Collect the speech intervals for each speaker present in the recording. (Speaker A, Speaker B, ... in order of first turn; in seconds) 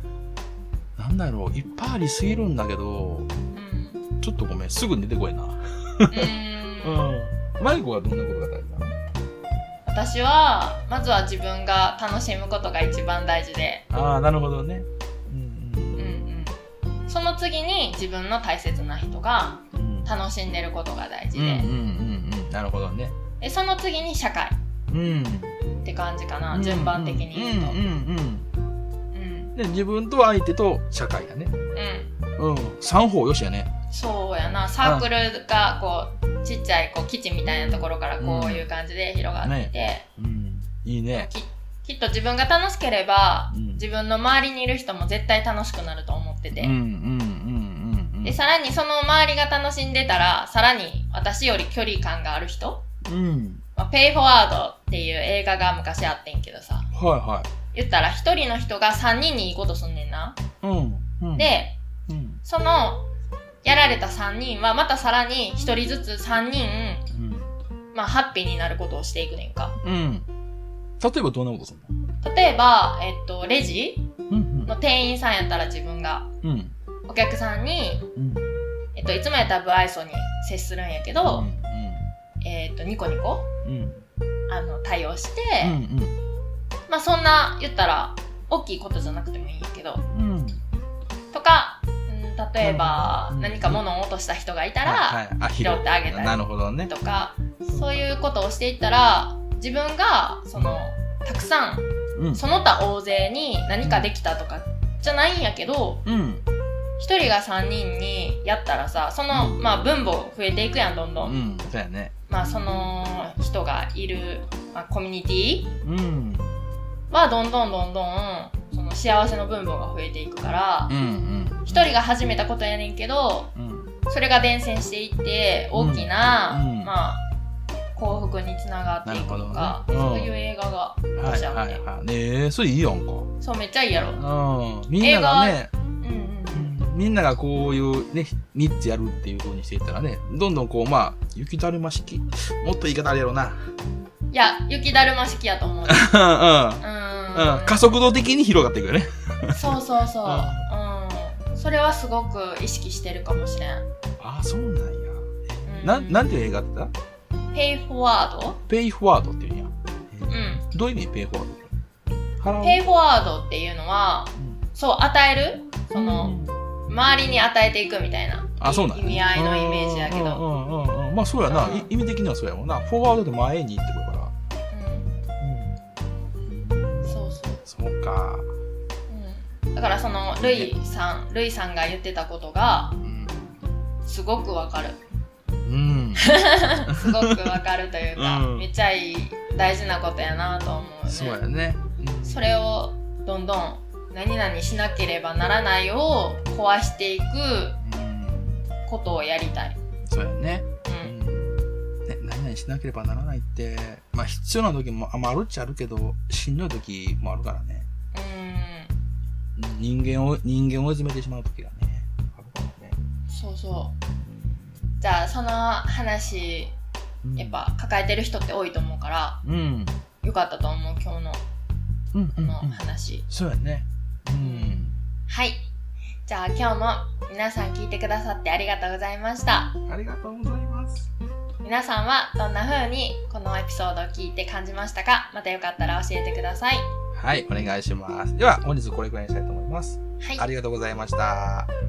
Speaker A: 1.0-3.3, 4.2-9.0, 13.9-16.2, 19.7-20.1, 21.3-23.2, 24.9-25.6, 26.5-28.5, 29.5-31.6, 32.4-33.7, 34.8-35.1, 37.5-38.7, 39.4-41.3, 43.5-43.9, 46.5-48.4, 53.0-53.6, 56.9-57.5, 60.6-61.5, 62.1-62.4, 67.1-67.6, 69.8-70.3, 71.0-71.9, 74.3-74.7, 76.4-76.8, 78.2-78.5, 81.2-82.1, 83.6-84.1, 85.6-86.2, 90.1-90.6, 92.6-93.8, 94.8-96.9, 97.7-97.9, 100.6-100.8, 102.1-102.4, 103.8-104.1, 106.0-106.5, 109.3-109.6, 111.2-112.1, 115.8-116.6, 120.9-122.0, 123.5-123.9, 125.7-126.9, 129.0-130.3, 131.2-133.3, 134.1-135.7, 136.5-143.7, 145.9-149.7, 150.2-150.7, 154.2-156.9, 158.7-161.7, 162.4-162.8, 164.3-164.6, 165.9-166.6, 168.6-174.3, 175.4-175.8, 176.4-178.5, 180.3-180.7, 183.0-183.6, 185.6-187.5, 188.2-188.7, 191.1-192.5, 197.8-198.7, 200.1-207.9, 209.6-213.0, 214.2-214.9, 217.2-217.6, 219.4-220.0, 222.1-225.0, 229.9-231.1, 237.1-241.7
Speaker B: 3.5-4.0, 6.1-7.1, 9.8-13.8, 15.9-21.7, 23.4-24.6, 25.8-27.8, 29.1-29.5, 31.7-32.1, 33.9-40.1, 41.1-46.8, 48.2-52.8, 53.8-56.9, 57.7-60.4, 61.4-61.8, 62.4-63.1, 63.6-67.1, 67.9-69.8, 72.2-74.1, 74.7-76.3, 77.1-78.0, 78.9-81.5, 82.4-83.5, 84.5-85.8, 86.9-90.0, 91.3-106.0, 107.0-111.4, 112.3-115.7, 117.1-120.9, 121.7-123.5, 124.1-127.2, 127.9-131.8, 133.4-134.2, 135.0-136.7, 144.3-146.2, 146.8-148.2, 149.5-153.8, 155.7-156.4, 157.5-158.6, 160.3-160.7, 162.6-170.4, 171.4-171.9, 174.7-175.2, 177.0-177.6, 179.1-183.0, 184.0-185.0, 186.2-191.4, 192.2-197.8, 198.8-199.8, 200.9-201.1, 208.1-208.9, 213.3-214.0, 215.0-216.8, 217.4-219.4, 220.2-221.4, 222.4-223.2, 224.4-225.6, 226.2-229.8, 231.6-236.9, 240.2-240.4